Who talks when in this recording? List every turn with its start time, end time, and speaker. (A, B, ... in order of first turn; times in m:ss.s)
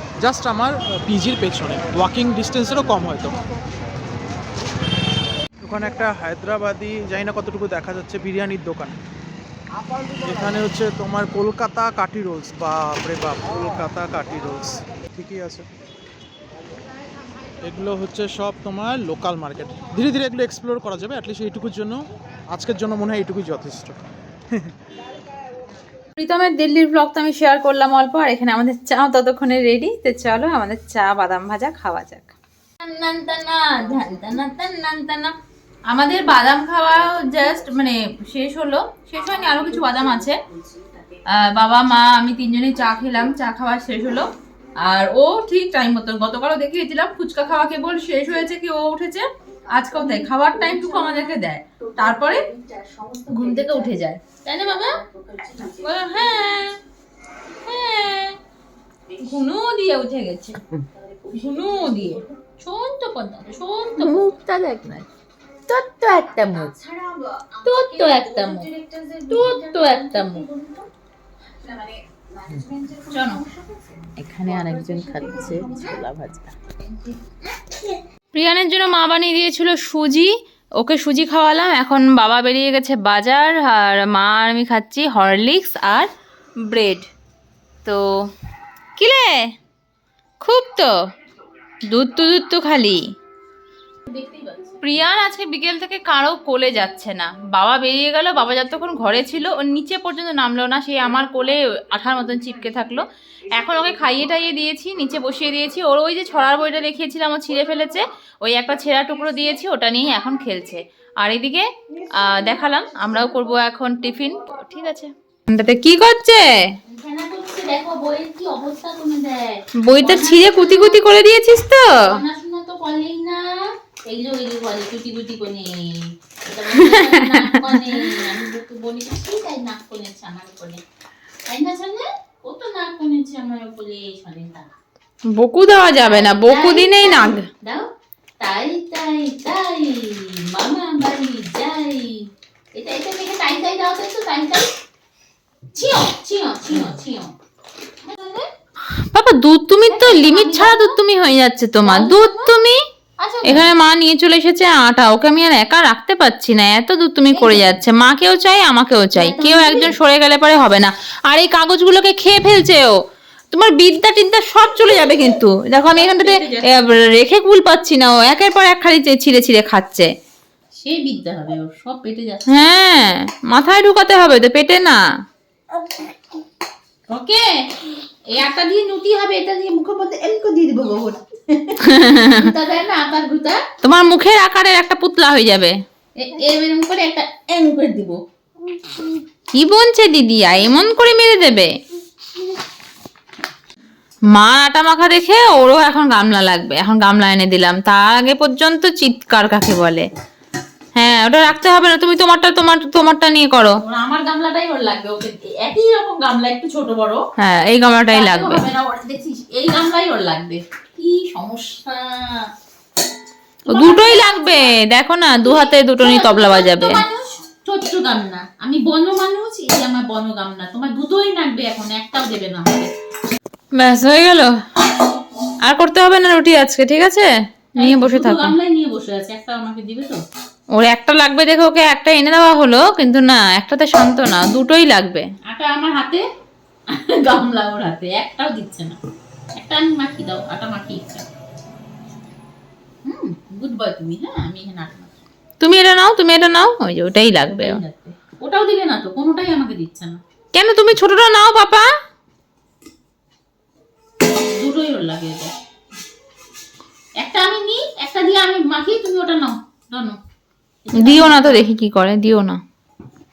0:00.2-0:03.4 A
0:05.6-0:09.0 A
0:10.2-0:15.7 A
0:17.6-0:24.7 A
0:26.2-0:35.3 B
0:35.9-0:40.4 B
0:41.3-0:44.3 B
0:44.8-0:52.5 B
0:52.7-0:53.7 C
0:53.3-0:54.4 B
0:54.4-0:55.7 C
0:55.7-0:56.7 B
0:57.6-0:58.4 B
0:59.2-1:00.6 B
1:01.3-1:02.2 B
1:02.6-1:05.0 C
1:04.0-1:04.3 B
1:05.7-1:06.8 C
1:07.6-1:10.9 C
1:07.7-1:08.7 B
1:09.3-1:10.4 B
1:12.4-1:16.7 C
1:13.0-1:13.4 B
1:18.3-1:26.1 B
1:26.6-1:27.1 B
1:29.0-1:29.4 B
1:30.4-1:30.9 B
1:31.9-1:33.0 B
1:34.1-1:34.8 C
1:34.8-1:51.7 B
1:52.2-1:56.5 B
1:56.9-2:01.0 C
1:59.8-2:02.1 B
2:02.0-2:10.8 C
2:06.8-2:07.8 B
2:11.5-2:14.7 C
2:15.3-2:17.5 B
2:16.0-2:17.9 C
2:18.4-2:24.7 C
2:25.7-2:27.3 C
2:28.0-2:28.5 C
2:29.1-2:32.8 B
2:29.9-2:31.0 C
2:31.8-2:32.5 C
2:33.2-2:33.7 C
2:33.4-2:43.0 B
2:37.3-2:37.7 C
2:39.2-2:40.0 C
2:43.5-2:50.1 B
2:45.9-2:46.9 C
2:50.8-2:52.5 C
2:52.5-2:55.0 B
2:57.1-2:57.5 C
2:58.3-3:03.6 C
3:01.8-3:02.5 B
3:03.8-3:05.7 B
3:06.2-3:08.2 C
3:08.8-3:09.2 C
3:09.6-3:11.7 B
3:14.3-3:20.1 B
3:21.0-3:23.8 B
3:23.8-3:27.2 C
3:27.4-3:28.6 B
3:28.1-3:32.5 C
3:33.7-3:34.7 C
3:33.7-3:37.0 B
3:35.4-3:42.9 C
3:43.8-3:44.5 B
3:45.6-3:48.5 B
3:47.8-3:50.2 C
3:50.8-3:55.2 B
3:55.5-3:56.2 C
3:56.9-3:59.0 C
3:59.6-4:01.3 C
4:03.0-4:05.1 C
4:05.6-4:07.8 B
4:07.5-4:10.2 C
4:10.5-4:11.9 B
4:14.5-4:15.5 C
4:17.2-4:20.2 C
4:20.8-4:21.7 C
4:21.0-4:22.6 B